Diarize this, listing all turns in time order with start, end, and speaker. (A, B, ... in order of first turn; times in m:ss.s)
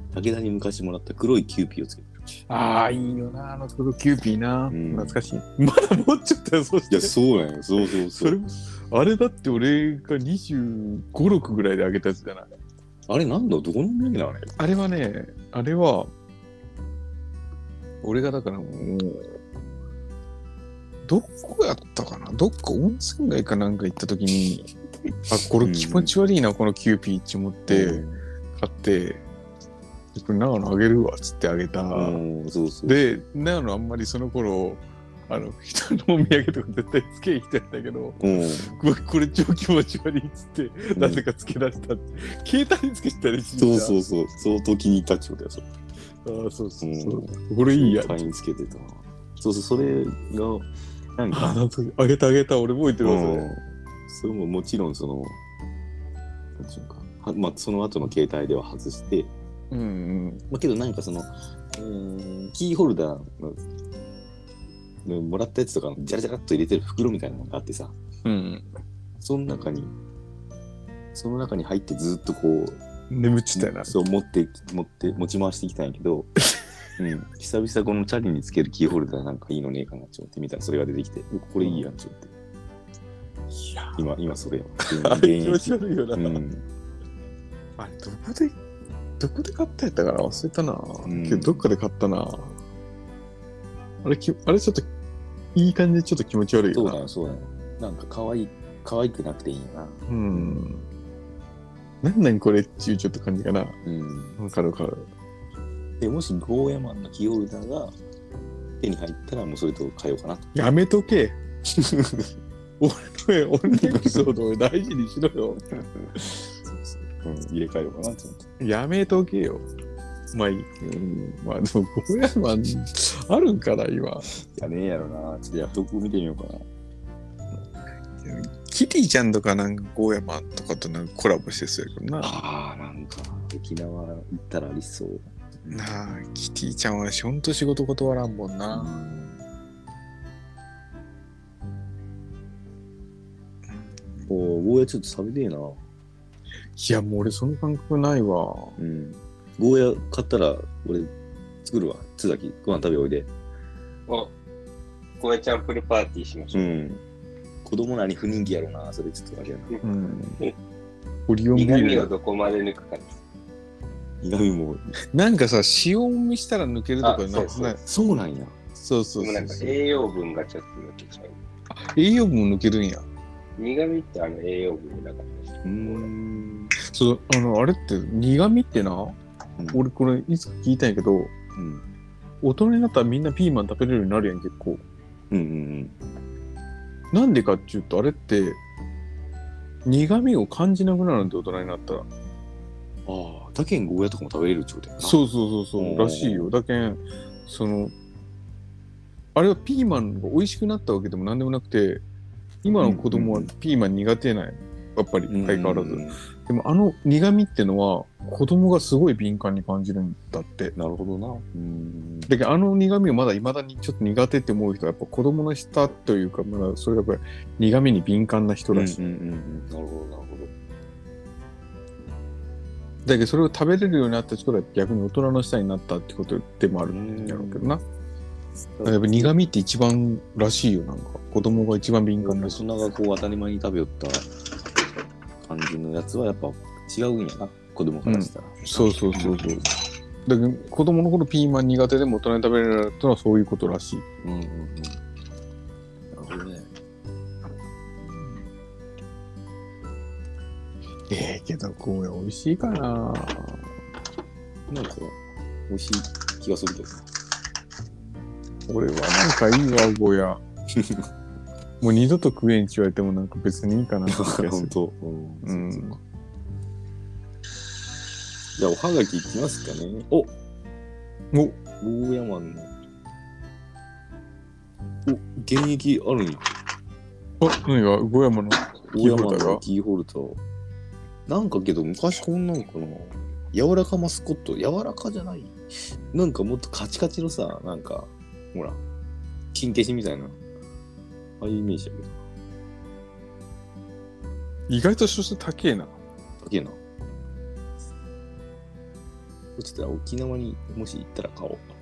0:00.1-0:02.1 A
0:02.5-0:07.1 B
0:04.7-0:05.2 A
0:06.9-0:08.4 A
0:08.1-0:12.5 B
0:13.1-0:14.5 A
0:14.6-0:16.1 B
0:18.0-0:19.4 B
0:21.0-0:24.7 B
0:25.3-0:29.2 B
0:25.6-0:26.1 A
0:27.7-0:28.2 A
0:30.1-0:32.2 B
0:31.9-0:33.0 A
0:32.8-0:44.0 B
0:38.2-0:38.8 A
0:40.9-0:41.2 A
0:43.6-0:45.7 A
0:46.2-0:48.3 B
0:46.8-0:51.6 A
0:51.3-0:53.5 B
0:53.0-0:55.4 A
0:56.6-0:59.3 A
0:59.7-1:00.4 B
1:00.5-1:03.6 A
1:05.0-1:07.9 A
1:08.2-1:08.7 B
1:09.2-1:09.9 A
1:11.1-1:12.8 A
1:13.1-1:14.0 B
1:13.5-1:16.3 A
1:17.0-1:22.3 A
1:23.5-1:24.0 B
1:24.0-1:26.6 A
1:24.8-1:26.4 B
1:27.8-1:28.5 B
1:29.2-1:32.6 B
1:31.0-1:31.6 A
1:34.0-1:34.9 B
1:35.5-1:37.0 B
1:36.7-1:40.6 A
1:40.1-1:40.8 B
1:42.0-1:43.8 B
1:43.8-1:44.4 A
1:44.4-1:45.0 B
1:46.0-1:47.9 A
1:48.8-1:50.5 A
1:50.5-1:51.4 B
1:51.8-1:52.3 A
1:52.8-1:56.4 B
1:53.7-1:54.2 A
1:56.7-1:58.4 A
1:58.6-1:59.6 B
2:00.3-2:04.3 B
2:04.4-2:06.6 A
2:08.2-2:12.4 B
2:12.2-2:15.8 A
2:15.7-2:18.9 B
2:18.7-2:19.4 A
2:23.7-2:24.3 B
2:24.3-2:25.8 A
2:26.8-2:28.8 B
2:28.8-2:31.1 A
2:31.6-2:33.3 A
2:34.1-2:34.3 C
2:35.2-2:36.8 C
2:36.5-2:37.0 A
2:37.6-2:39.8 A
2:39.8-2:40.4 B
2:41.3-2:42.1 B
2:41.5-2:43.2 C
2:44.2-2:44.8 A
2:45.1-2:47.8 B
2:47.0-2:47.6 C
2:47.4-2:48.5 A
2:48.8-2:49.7 B
2:49.2-2:51.4 C
2:51.7-2:53.0 B
2:53.6-2:56.1 C
2:55.6-2:56.7 A
2:56.8-2:59.2 B
2:59.7-3:01.3 B
3:01.6-3:01.8 A
3:02.4-3:04.8 B
3:05.3-3:06.0 A
3:07.1-3:08.6 B
3:09.8-3:12.1 B
3:13.0-3:15.2 A
3:15.0-3:17.9 B
3:15.8-3:16.5 A
3:19.3-3:22.0 B
3:22.6-3:30.7 B
3:22.8-3:23.5 A
3:25.3-3:26.2 A
3:30.8-3:32.3 A
3:32.3-3:39.0 B
3:38.7-3:40.5 A
3:43.0-3:47.8 B
3:46.9-3:47.7 A
3:48.8-3:49.3 A
3:48.8-3:52.6 B
3:52.2-3:54.3 A
3:55.4-3:59.7 A
3:58.0-3:59.7 B
4:00.2-4:04.0 B
4:04.2-4:05.0 A
4:06.1-4:06.7 A
4:08.0-4:08.4 A
4:11.1-4:13.6 B
4:14.7-4:17.1 A
4:18.7-4:20.4 B
4:20.7-4:21.1 A
4:21.8-4:24.7 B
4:24.0-4:26.0 A
4:25.4-4:26.0 B
4:28.6-4:30.3 A
4:31.3-4:31.6 B
4:31.8-4:32.7 A
4:35.0-4:36.5 A
4:37.4-4:39.6 B
4:38.9-4:40.4 A
4:41.3-4:48.8 A
4:49.5-4:50.4 A
4:51.4-4:52.2 A
4:54.7-4:56.0 B
4:56.4-4:56.8 A
4:59.6-5:01.7 A